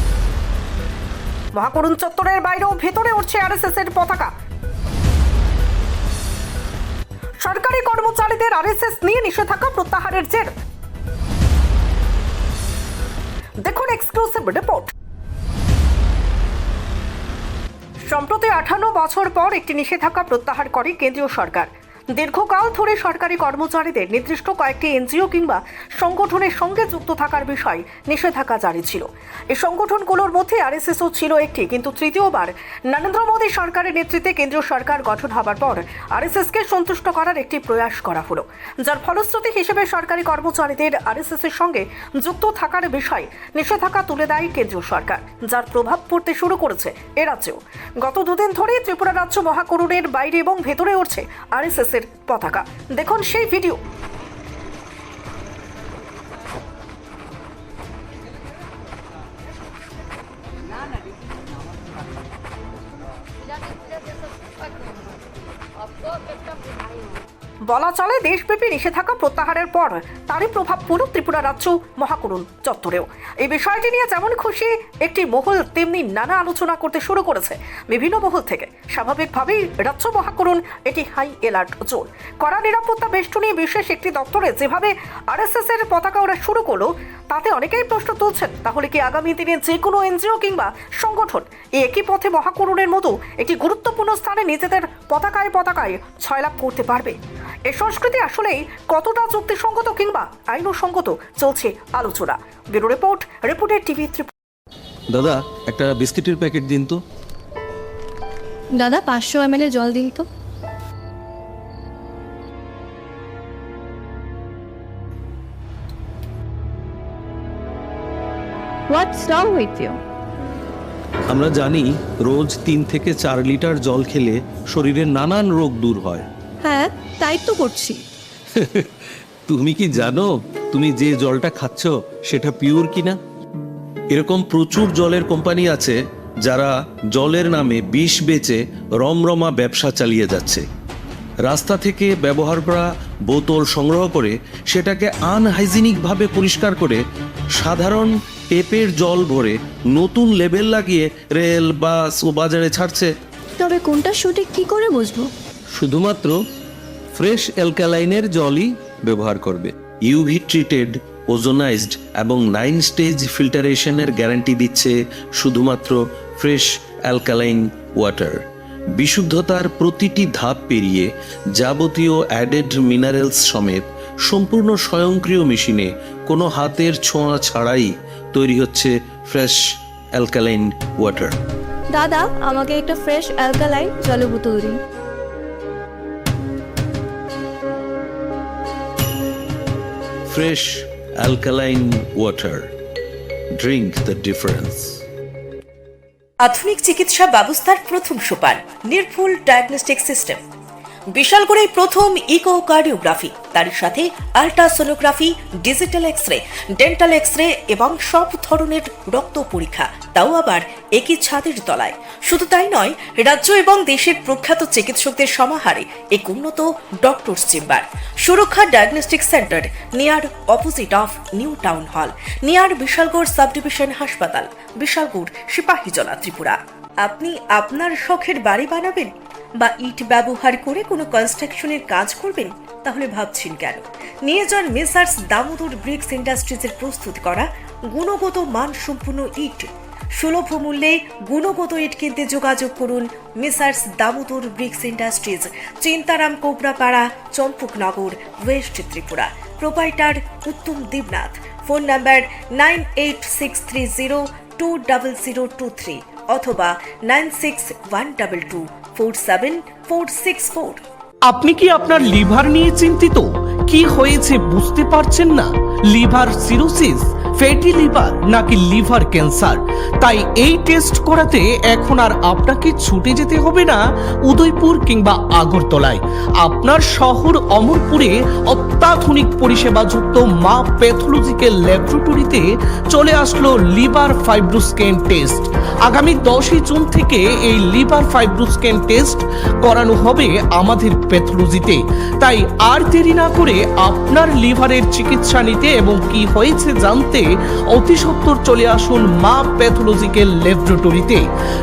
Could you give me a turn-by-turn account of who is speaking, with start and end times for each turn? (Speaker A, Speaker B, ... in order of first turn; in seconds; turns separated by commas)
Speaker A: 1.6-4.3, Speaker A: 7.4-10.6, Speaker A: 13.6-14.9, Speaker A: 18.1-53.8, Speaker A: 67.7-97.2, Speaker A: 97.7-104.3, Speaker B: 105.1-107.0, Speaker C: 108.8-110.3, Speaker C: 118.9-120.0, Speaker B: 121.3-126.3, Speaker C: 126.6-128.0, Speaker B: 128.6-128.9, Speaker B: 129.5-133.2, Speaker B: 134.1-140.7, Speaker B: 141.4-147.0, Speaker B: 147.6-153.1, Speaker C: 153.6-155.3, Speaker B: 155.7-156.4, Speaker B: 157.1-168.4, Speaker B: 169.0-179.6, Speaker B: 180.2-181.4, Speaker C: 181.9-184.8, Speaker B: 190.3-192.7, Speaker B: 193.6-195.0, Speaker D: 196.4-200.4, Speaker D: 201.1-260.8, Speaker E: 261.2-301.3